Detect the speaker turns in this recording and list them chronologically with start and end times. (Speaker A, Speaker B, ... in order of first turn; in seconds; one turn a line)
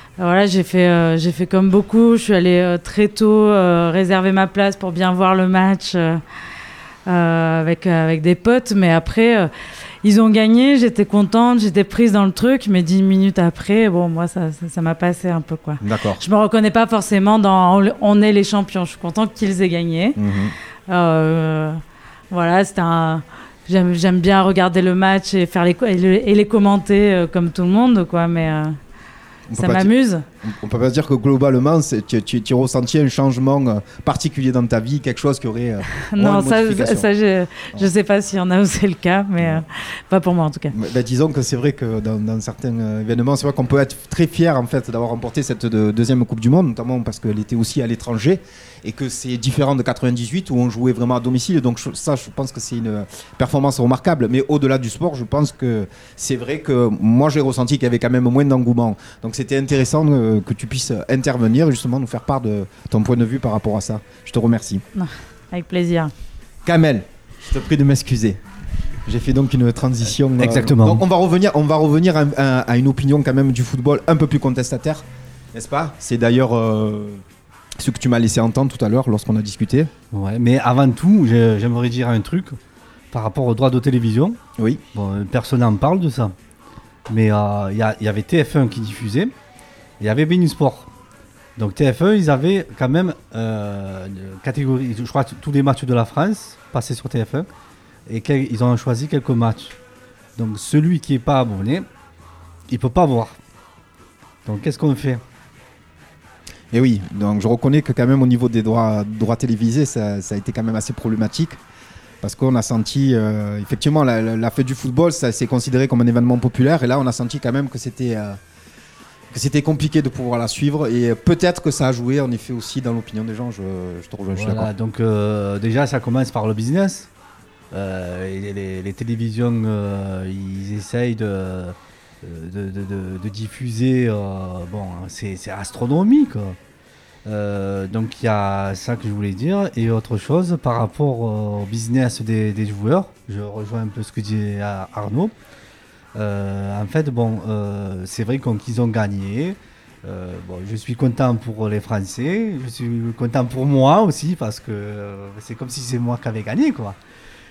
Speaker A: 0.2-6.2
Speaker A: 7.1-9.5
Speaker A: 10.0-20.2
Speaker B: 15.8-16.2
Speaker B: 20.2-20.6
Speaker A: 20.9-21.8
Speaker A: 22.3-28.8
Speaker B: 29.5-37.1
Speaker A: 29.6-30.2
Speaker A: 36.0-40.7
Speaker B: 40.7-64.8
Speaker A: 65.0-66.1
Speaker B: 66.7-68.4
Speaker B: 69.1-77.2
Speaker C: 70.4-71.0
Speaker B: 77.8-79.9
Speaker C: 80.1-82.6
Speaker C: 83.1-84.4
Speaker C: 84.9-86.3
Speaker C: 87.1-89.3
Speaker C: 90.0-90.9
Speaker C: 91.6-97.5
Speaker C: 98.1-99.8
Speaker C: 100.4-101.9
Speaker C: 102.7-103.4
Speaker C: 104.5-105.2
Speaker B: 106.7-111.6
Speaker B: 112.2-118.4
Speaker B: 119.3-124.7
Speaker C: 124.4-127.1
Speaker C: 127.7-136.6
Speaker C: 137.3-145.3
Speaker C: 146.2-157.0